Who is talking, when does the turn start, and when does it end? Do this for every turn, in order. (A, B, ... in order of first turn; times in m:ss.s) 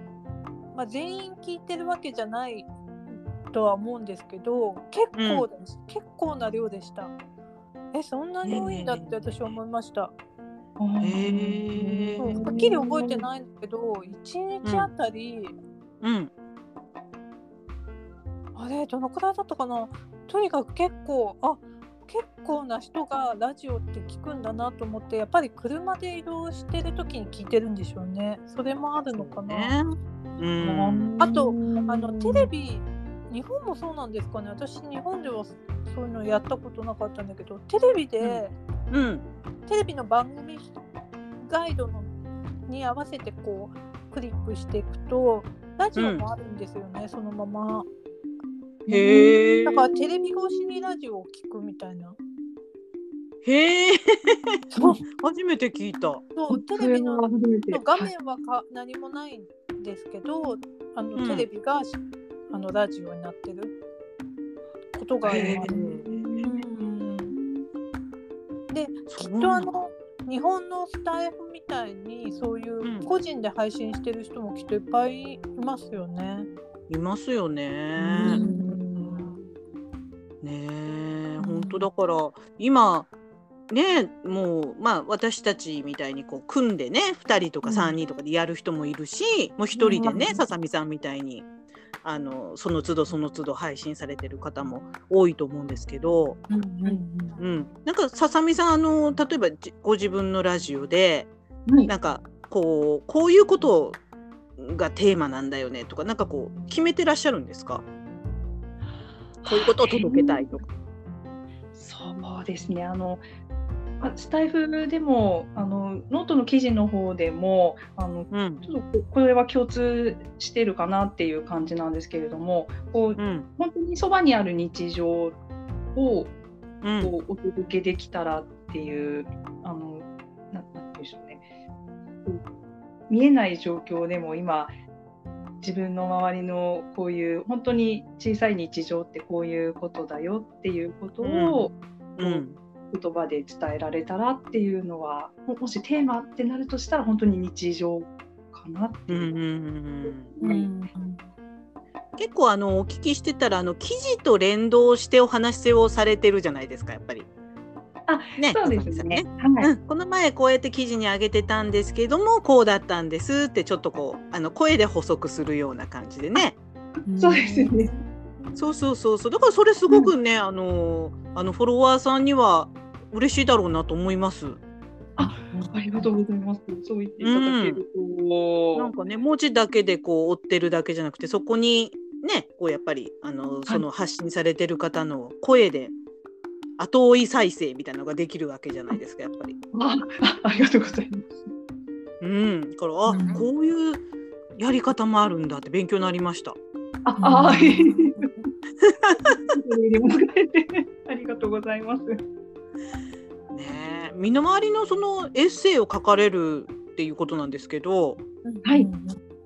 0:00.7-0:07.1 A
0:05.1-0:05.5 B
0:07.9-0:10.1 A
0:08.4-0:09.6 B
0:10.8-0:13.2 C
0:11.0-0:12.4 B
0:12.2-0:15.6 A
0:14.6-0:14.9 B
0:16.0-0:16.3 B
0:18.6-0:29.8 A
0:29.1-0:31.2 B
0:30.6-0:38.6 A
0:30.9-0:32.5 C
0:38.2-0:39.3 B
0:39.7-0:40.7 A
0:41.4-0:42.1 A
0:42.7-0:47.9 A
0:46.0-0:46.2 B
0:48.9-0:49.9 B
0:48.9-0:49.6 C
0:49.0-0:52.2 A
0:53.4-0:54.5 B
0:54.7-0:55.0 A
0:55.1-0:56.2 B
0:56.4-1:02.0 A
0:56.5-0:58.1 C
1:01.2-1:01.5 B
1:02.5-1:03.7 A
1:04.9-1:05.8 A
1:05.3-1:06.6 C
1:05.3-1:06.4 B
1:06.4-1:07.4 A
1:07.3-1:07.6 C
1:08.7-1:16.5 A
1:09.1-1:09.7 B
1:12.8-1:13.1 B
1:16.9-1:18.4 B
1:18.0-1:19.4 C
1:18.2-1:19.3 A
1:20.4-1:23.1 B
1:21.4-1:21.8 A
1:23.7-1:31.5 B
1:27.6-1:27.9 A
1:29.8-1:30.3 A
1:29.9-1:30.3 C
1:32.0-1:36.4 B
1:36.5-1:37.4 A
1:37.4-1:41.3 B
1:41.7-1:41.9 C
1:41.9-1:44.0 B
1:44.6-1:47.8 B
1:49.4-1:50.6 C
1:49.4-1:50.6 B
1:51.7-1:53.2 C
1:54.0-2:05.4 C
1:58.3-1:58.6 B
2:03.2-2:03.5 B
2:06.0-2:06.4 C
2:06.8-2:07.1 B
2:07.0-2:11.4 C
2:13.1-2:14.7 C
2:15.6-2:29.3 C
2:21.2-2:22.6 B
2:29.1-2:30.4 B
2:30.4-2:30.7 C
2:30.4-2:31.2 A
2:32.2-2:37.3 B
2:38.1-2:39.7 C
2:38.4-2:46.6 B
2:47.1-2:48.6 A
2:47.2-2:47.9 C
2:48.6-2:54.6 B
2:55.2-2:58.9 C
2:55.5-2:56.1 A
2:57.2-2:57.8 B
2:58.8-3:05.9 B
3:06.8-3:09.6 B
3:09.7-3:11.4 C
3:12.2-3:14.0 B
3:13.1-3:13.4 A
3:14.6-3:16.6 B
3:17.0-3:18.3 C
3:17.2-3:18.4 A
3:18.8-3:19.4 B
3:19.4-3:22.2 C
3:23.5-3:28.2 B
3:28.4-3:29.2 A
3:28.6-3:28.9 C